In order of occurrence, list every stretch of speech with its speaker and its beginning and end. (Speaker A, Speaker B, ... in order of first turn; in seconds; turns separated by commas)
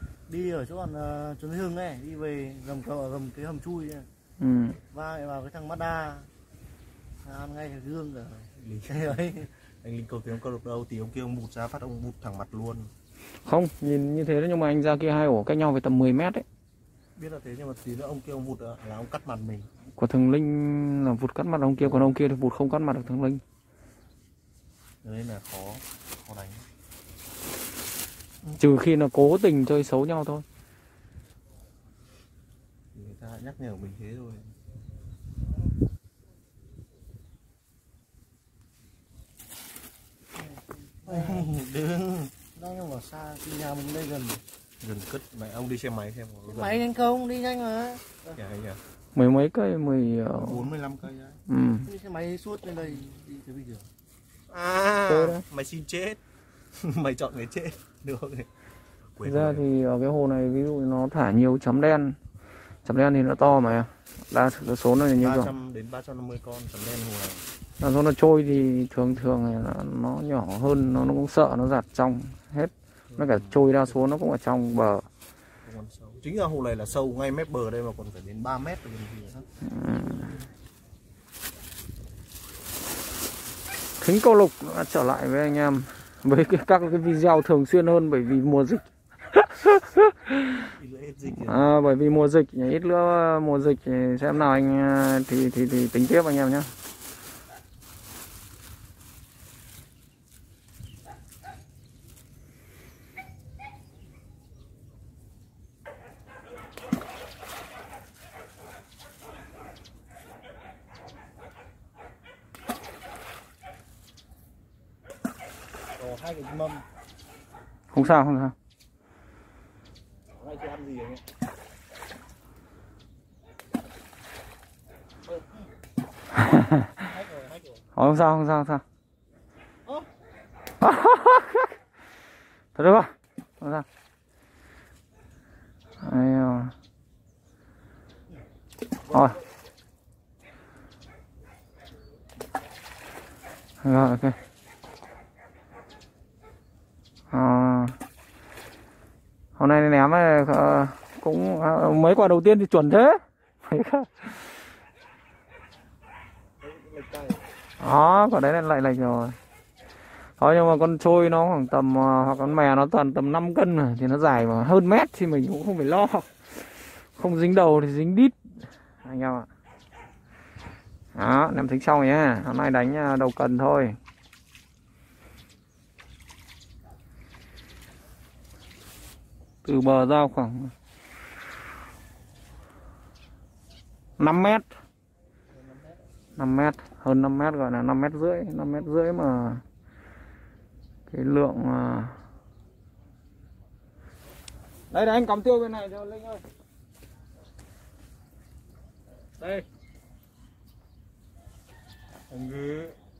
Speaker A: 0.3-4.1, Speaker B: 4.4-4.8, Speaker A: 4.9-6.3, Speaker A: 7.2-9.5, Speaker C: 8.6-12.9, Speaker B: 13.4-16.4, Speaker C: 17.2-19.7, Speaker B: 20.0-23.4, Speaker C: 25.0-26.6, Speaker B: 28.6-30.4, Speaker C: 33.0-34.5, Speaker A: 40.4-41.5, Speaker C: 41.1-42.3, Speaker A: 42.5-44.4, Speaker C: 44.8-46.8, Speaker A: 46.5-48.4, Speaker C: 48.4-48.8, Speaker B: 49.1-50.7, Speaker C: 50.3-51.4, Speaker B: 51.5-51.9, Speaker A: 51.9-53.9, Speaker C: 54.5-56.2, Speaker B: 55.1-55.4, Speaker C: 56.8-58.5, Speaker C: 59.2-59.6, Speaker B: 59.2-62.2, Speaker B: 62.9-65.5, Speaker C: 65.2-67.5, Speaker B: 67.8-75.0, Speaker C: 73.1-74.0, Speaker C: 75.6-79.5, Speaker B: 79.7-80.4, Speaker B: 84.0-90.7, Speaker C: 90.8-91.7, Speaker B: 91.4-96.7, Speaker C: 116.0-116.8, Speaker B: 117.9-118.5, Speaker C: 120.3-121.2, Speaker B: 126.5-126.9, Speaker C: 127.1-127.8, Speaker B: 128.0-128.8, Speaker B: 130.8-131.7, Speaker B: 132.8-133.8, Speaker B: 136.0-136.7, Speaker B: 139.1-139.4, Speaker B: 143.8-144.4, Speaker B: 147.3-148.0, Speaker B: 149.6-154.5, Speaker C: 156.6-157.5, Speaker B: 157.8-159.3, Speaker B: 160.4-168.4, Speaker B: 169.0-169.5, Speaker B: 171.2-174.0, Speaker B: 179.7-180.7, Speaker B: 184.2-184.7, Speaker C: 185.5-186.0, Speaker B: 186.4-189.6, Speaker B: 191.1-192.2, Speaker B: 194.9-196.4, Speaker C: 202.3-203.0